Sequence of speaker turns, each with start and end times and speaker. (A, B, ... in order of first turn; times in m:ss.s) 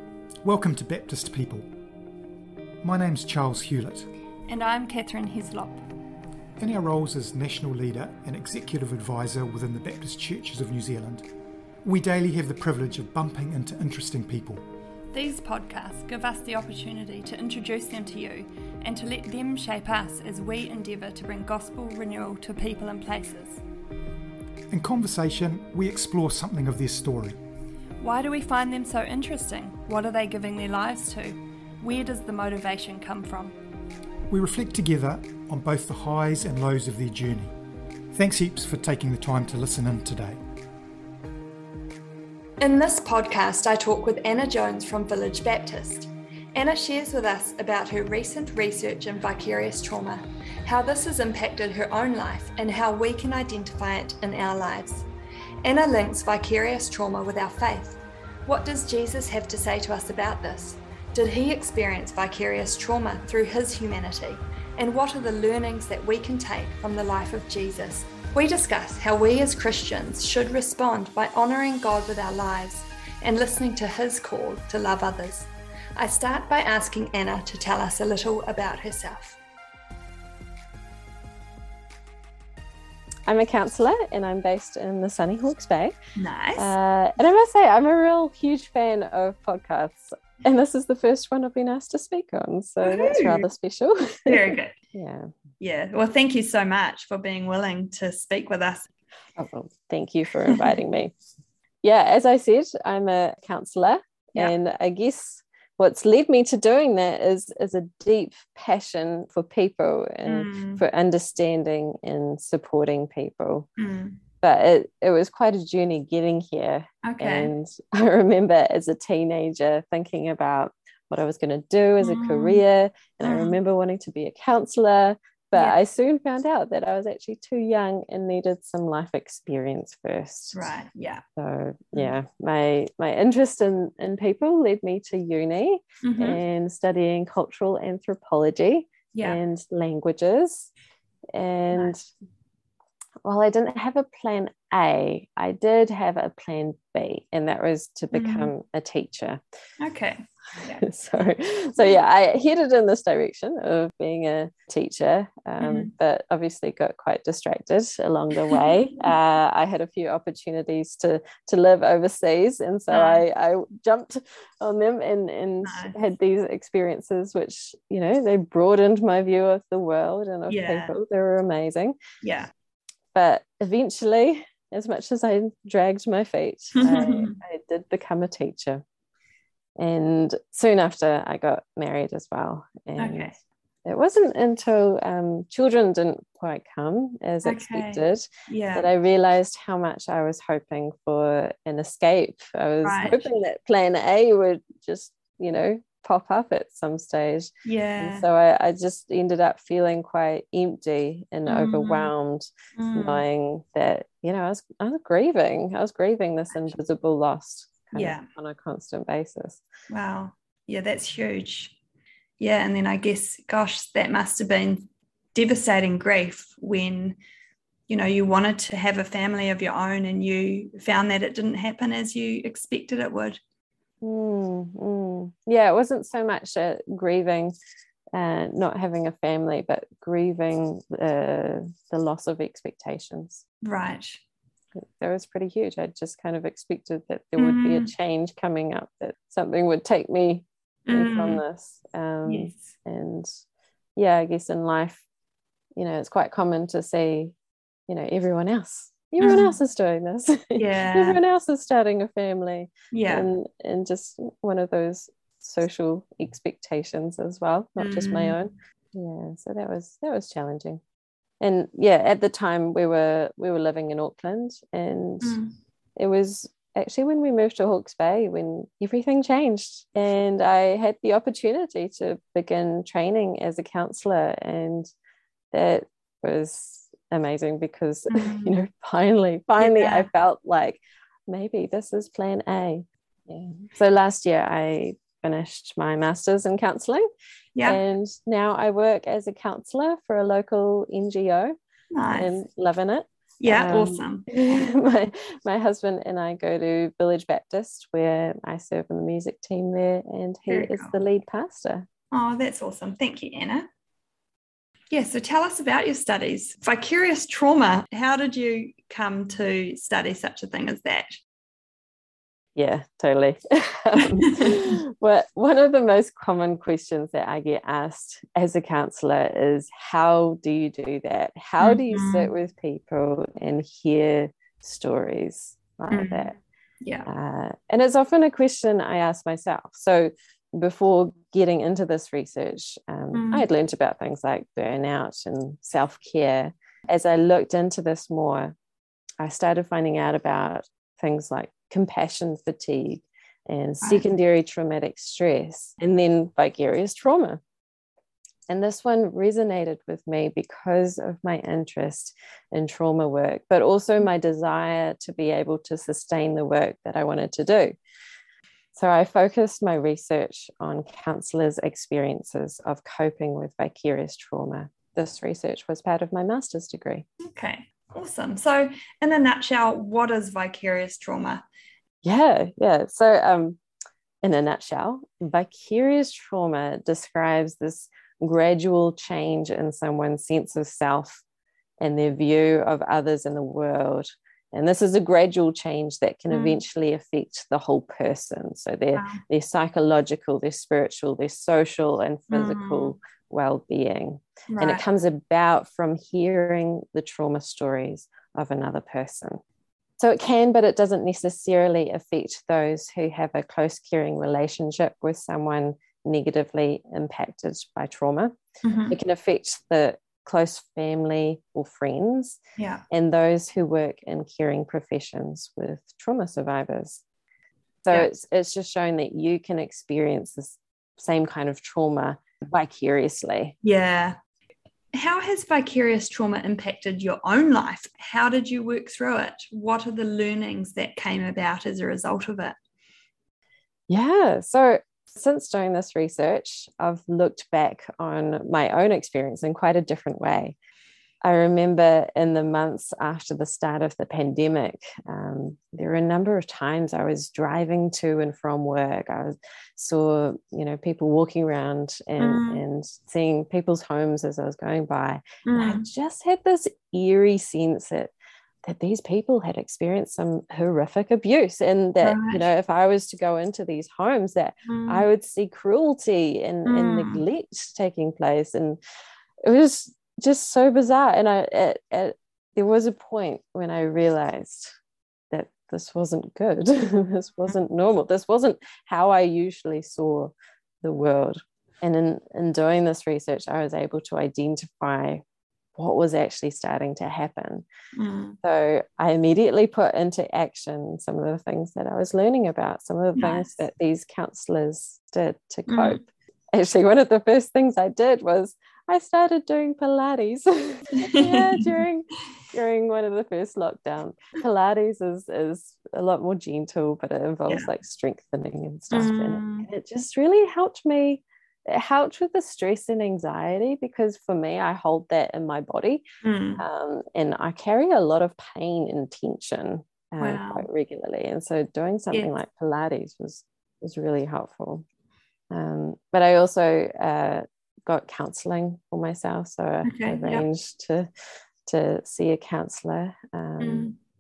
0:00.4-0:01.6 A
0:02.8-0:04.1 A
0:04.5-0:05.8 B
0:06.6-0:11.2 A
0:11.8-0:14.6 A
0:15.1-0:23.6 B
0:24.7-0:27.4 A
0:28.0-0:33.6 B
0:34.3-0:37.5 A
0:38.1-0:40.4 A
0:42.6-0:55.1 B
0:55.6-1:19.4 B
1:23.3-1:26.0 C
1:26.2-1:26.7 B
1:26.6-1:35.3 C
1:32.8-1:33.4 B
1:34.3-1:34.8 B
1:35.6-1:38.9 B
1:39.4-1:41.1 C
1:41.8-1:53.7 C
1:50.3-1:50.8 B
1:53.8-1:54.2 B
1:54.4-2:10.6 C
1:57.0-1:57.5 B
2:02.0-2:02.6 B
2:03.2-2:03.6 B
2:10.5-2:11.2 B
2:11.4-2:20.7 C
2:16.0-2:16.4 B
2:21.3-2:22.0 C
2:23.2-2:29.4 C
2:28.1-2:28.5 B
2:29.8-2:30.8 B
2:30.8-2:52.0 C
2:35.6-2:35.9 B
2:42.9-2:43.2 B
2:45.6-2:45.9 B
2:50.5-2:50.9 B
2:52.2-2:52.5 B
2:53.1-2:58.8 C
2:56.8-2:57.4 B
2:59.8-3:03.3 C
3:03.0-3:03.3 B
3:03.8-3:29.6 C
3:07.4-3:08.9 B
3:12.8-3:13.3 B
3:17.6-3:18.2 B
3:21.5-3:22.1 B
3:22.8-3:23.2 B
3:28.0-3:28.3 B
3:29.9-3:31.8 B
3:32.4-3:37.2 B
3:37.9-3:43.4 B
3:44.0-3:47.5 C
3:48.1-3:53.4 C
3:53.6-3:54.2 B
3:54.8-4:03.3 C
3:57.4-3:57.9 B
4:00.9-4:01.4 B
4:02.3-4:02.6 B
4:04.0-4:05.0 C
4:05.8-4:07.3 C
4:07.9-4:20.8 C
4:09.2-4:09.6 B
4:10.6-4:11.2 B
4:12.9-4:13.3 B
4:17.8-4:18.4 B
4:21.4-4:25.4 C
4:25.2-4:25.5 B
4:26.0-4:34.9 C
4:35.5-4:47.1 C
4:38.1-4:38.5 B
4:39.6-4:40.1 B
4:47.6-4:51.6 C
4:51.9-4:52.3 B
4:52.1-5:01.9 C
4:53.4-4:54.7 B
5:00.5-5:00.9 B
5:02.1-5:03.7 B
5:04.9-5:11.1 B
5:12.6-5:26.4 C
5:14.2-5:14.6 B
5:21.6-5:22.3 B
5:25.9-5:26.3 B
5:26.8-5:27.1 B
5:27.1-5:38.6 C
5:33.1-5:33.4 B
5:39.2-5:47.4 C
5:48.5-5:57.8 C
5:58.8-6:07.1 C
6:07.2-6:11.4 B
6:12.0-6:13.6 C
6:14.2-6:21.2 C
6:21.8-6:39.4 C
6:26.3-6:26.6 B
6:28.9-6:29.2 B
6:32.3-6:33.0 B
6:34.5-6:34.8 B
6:40.0-6:48.3 C
6:48.6-6:49.0 B
6:48.9-6:52.4 C
6:52.6-6:52.8 B
6:52.9-6:57.0 C
6:57.8-7:03.6 C
7:03.6-7:04.2 B
7:04.9-7:12.6 B
7:13.9-7:20.6 C
7:21.2-7:38.1 C
7:32.2-7:32.6 B
7:35.4-7:35.8 B
7:38.6-7:48.8 C
7:42.0-7:42.4 B
7:44.7-7:45.0 B
7:46.7-7:47.2 B
7:49.4-7:54.7 C
7:55.3-8:05.2 C
8:05.8-8:07.6 C
8:08.0-8:08.4 B
8:08.4-8:36.0 C
8:13.2-8:13.5 B
8:15.7-8:16.0 B
8:21.0-8:21.7 B
8:28.9-8:29.7 B
8:36.2-8:36.6 B
8:36.6-8:44.8 C
8:40.2-8:40.7 B
8:45.5-8:51.1 C
8:49.8-8:50.4 B
8:51.7-8:53.9 C
8:53.6-8:54.0 B